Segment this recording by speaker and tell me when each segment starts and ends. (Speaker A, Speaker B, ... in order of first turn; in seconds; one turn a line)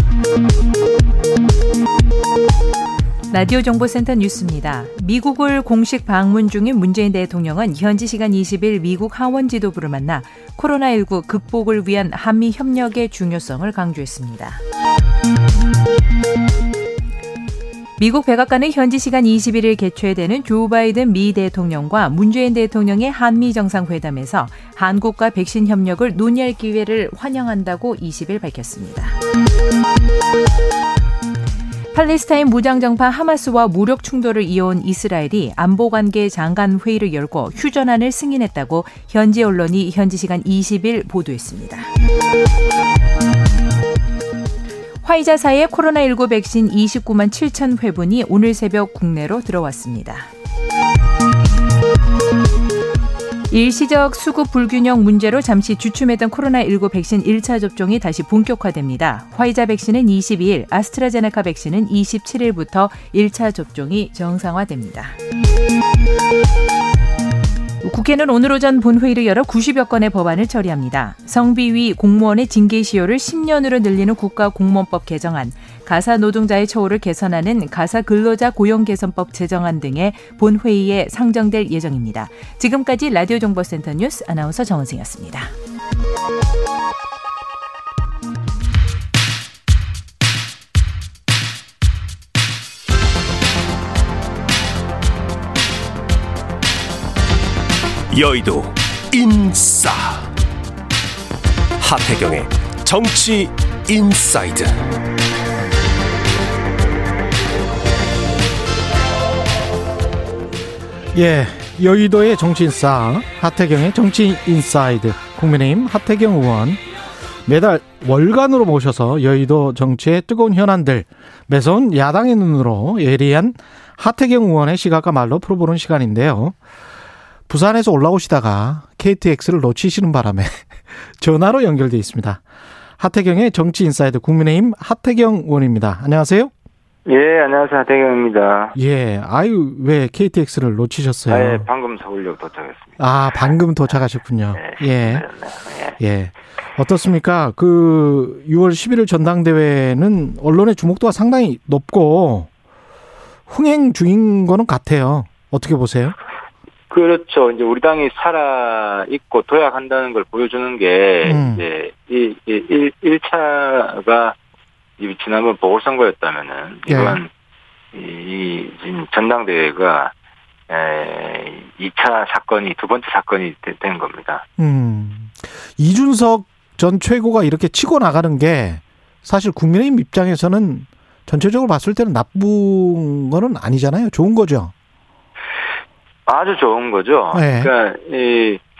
Speaker A: 3.3-14.6
Speaker A: 18.0-29.1
Speaker A: 31.9-41.9
Speaker A: 45.0-50.3
Speaker A: 53.5-65.2
Speaker A: 67.8-85.5
Speaker B: 98.1-100.3
Speaker B: 101.8-104.8
Speaker C: 111.1-116.8
Speaker C: 117.5-126.6
Speaker C: 127.5-132.4
Speaker C: 133.0-136.5
Speaker D: 137.1-138.8
Speaker C: 138.7-141.6
Speaker D: 141.3-143.5
Speaker C: 143.0-145.2
Speaker D: 144.5-146.0
Speaker C: 146.0-152.5
Speaker C: 153.5-156.2
Speaker D: 156.9-164.3
Speaker C: 161.2-161.6
Speaker D: 165.0-167.3
Speaker C: 166.9-167.2
Speaker D: 167.9-170.1
Speaker D: 170.7-174.4
Speaker C: 174.6-184.7
Speaker D: 186.2-188.6
Speaker C: 187.3-187.7